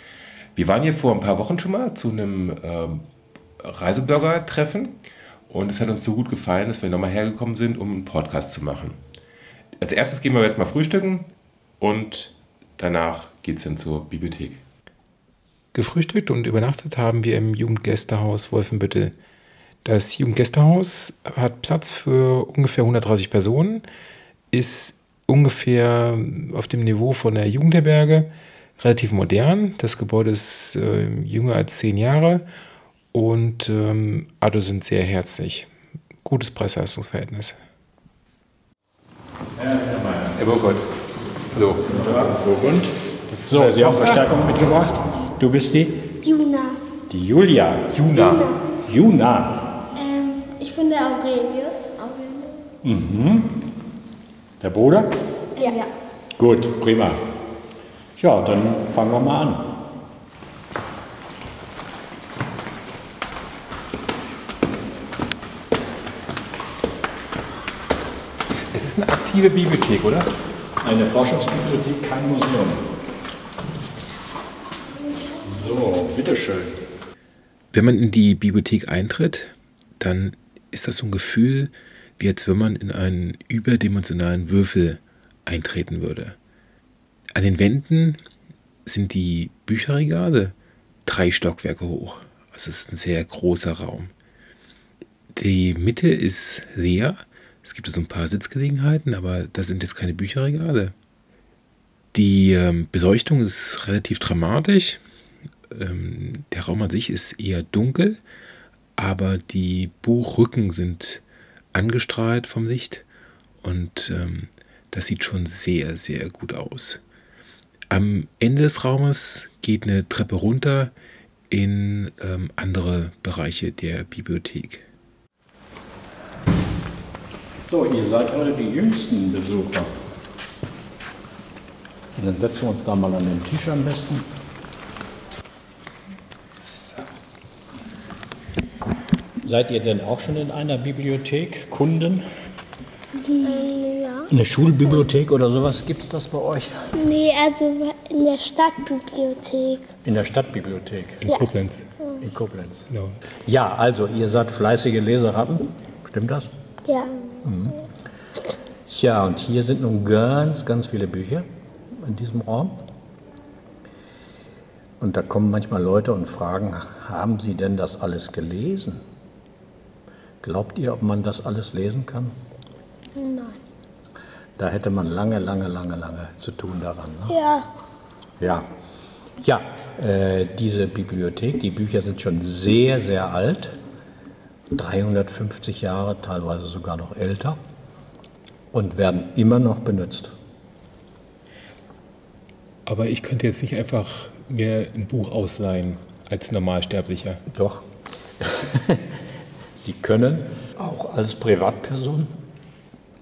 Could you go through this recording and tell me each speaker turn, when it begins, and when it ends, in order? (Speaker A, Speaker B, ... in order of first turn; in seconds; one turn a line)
Speaker A: 0.6-3.0
Speaker A: 3.6-5.0
Speaker A: 5.5-9.0
Speaker A: 9.8-11.3
Speaker A: 11.8-14.6
Speaker B: 15.7-19.1
Speaker B: 19.8-23.9
Speaker B: 24.5-32.5
Speaker B: 33.1-35.7
Speaker B: 36.2-37.6
Speaker A: 40.4-40.9
Speaker A: 41.5-41.9
Speaker C: 41.8-46.1
Speaker A: 43.3-44.2
Speaker D: 46.2-46.8
Speaker C: 47.1-47.9
Speaker A: 47.9-48.5
Speaker D: 48.1-48.6
Speaker C: 48.8-49.6
Speaker E: 50.0-52.7
Speaker C: 52.8-53.6
Speaker C: 54.6-55.1
Speaker E: 55.6-55.9
Speaker C: 56.4-57.2
Speaker C: 58.2-59.8
Speaker A: 68.7-70.3
Speaker C: 70.8-72.9
Speaker C: 75.4-76.8
Speaker B: 77.7-86.4
Speaker B: 87.3-88.2
Speaker B: 88.9-90.5
Speaker B: 91.1-94.1
Speaker B: 95.3-100.9
Speaker B: 102.1-105.0
Speaker B: 105.7-108.2
Speaker B: 109.0-111.2
Speaker B: 111.7-113.0
Speaker B: 113.6-117.0
Speaker B: 117.9-120.9
Speaker B: 121.5-124.8
Speaker C: 127.7-129.9
Speaker C: 132.2-134.2
Speaker C: 139.4-142.2
Speaker D: 143.2-143.7
Speaker E: 143.4-144.3
Speaker C: 144.3-146.9
Speaker D: 147.0-149.9
Speaker C: 150.0-151.4
Speaker B: 151.3-151.8
Speaker C: 152.2-152.9
Speaker B: 152.9-153.2
Speaker C: 153.5-156.5
Speaker D: 156.9-157.4
Speaker C: 157.4-157.8
Speaker C: 158.9-161.5
Speaker C: 162.0-162.8
Speaker C: 165.0-169.0
Speaker C: 170.4-172.3
Speaker D: 173.2-173.4
Speaker E: 173.2-173.5
Speaker C: 174.6-177.4
Speaker D: 177.3-177.7
Speaker C: 178.4-178.7
Speaker C: 179.4-183.8
Speaker C: 184.7-187.6
Speaker C: 188.7-190.3
Speaker B: 192.9-197.4
Speaker C: 197.5-197.8
Speaker C: 198.4-199.0
Speaker C: 199.8-202.3